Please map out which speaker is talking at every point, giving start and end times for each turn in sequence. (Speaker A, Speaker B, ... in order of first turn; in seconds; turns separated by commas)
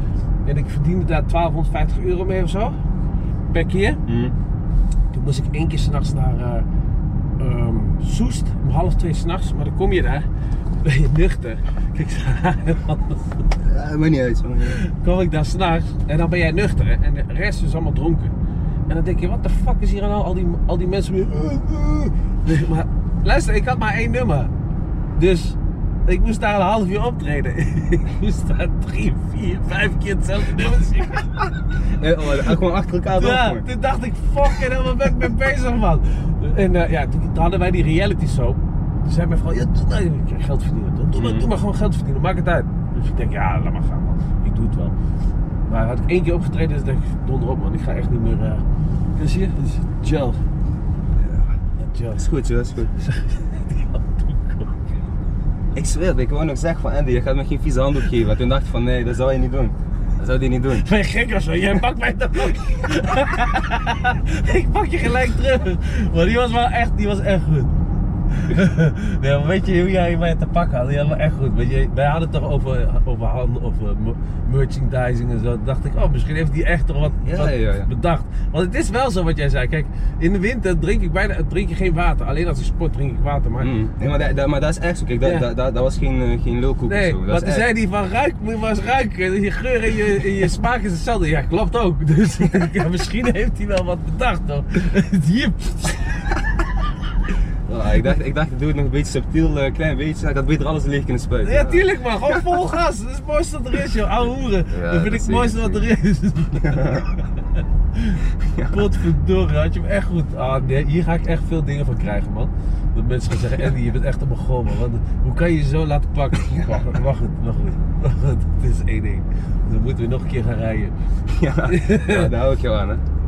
Speaker A: 0.5-2.8, Speaker A: 3.5-4.0, Speaker B: 4.1-4.3, Speaker A: 5.1-6.7, Speaker A: 7.4-10.3, Speaker A: 10.8-13.5, Speaker B: 13.6-14.8, Speaker A: 14.7-18.4, Speaker A: 18.9-24.5, Speaker A: 25.1-31.5, Speaker B: 31.9-33.7, Speaker A: 33.1-45.0, Speaker B: 41.2-41.5, Speaker A: 45.7-48.6, Speaker A: 49.1-50.4, Speaker B: 51.2-51.6, Speaker A: 51.8-52.3, Speaker B: 52.1-53.0, Speaker A: 53.0-55.0, Speaker B: 55.7-60.9, Speaker A: 60.8-67.8, Speaker A: 68.3-83.7, Speaker B: 77.2-77.9, Speaker B: 83.6-87.7, Speaker A: 85.2-85.5, Speaker A: 86.9-96.5, Speaker B: 97.7-101.9, Speaker A: 101.4-120.9, Speaker B: 104.7-105.9, Speaker B: 106.6-107.1, Speaker B: 108.4-108.9, Speaker B: 121.3-123.0, Speaker A: 121.7-122.3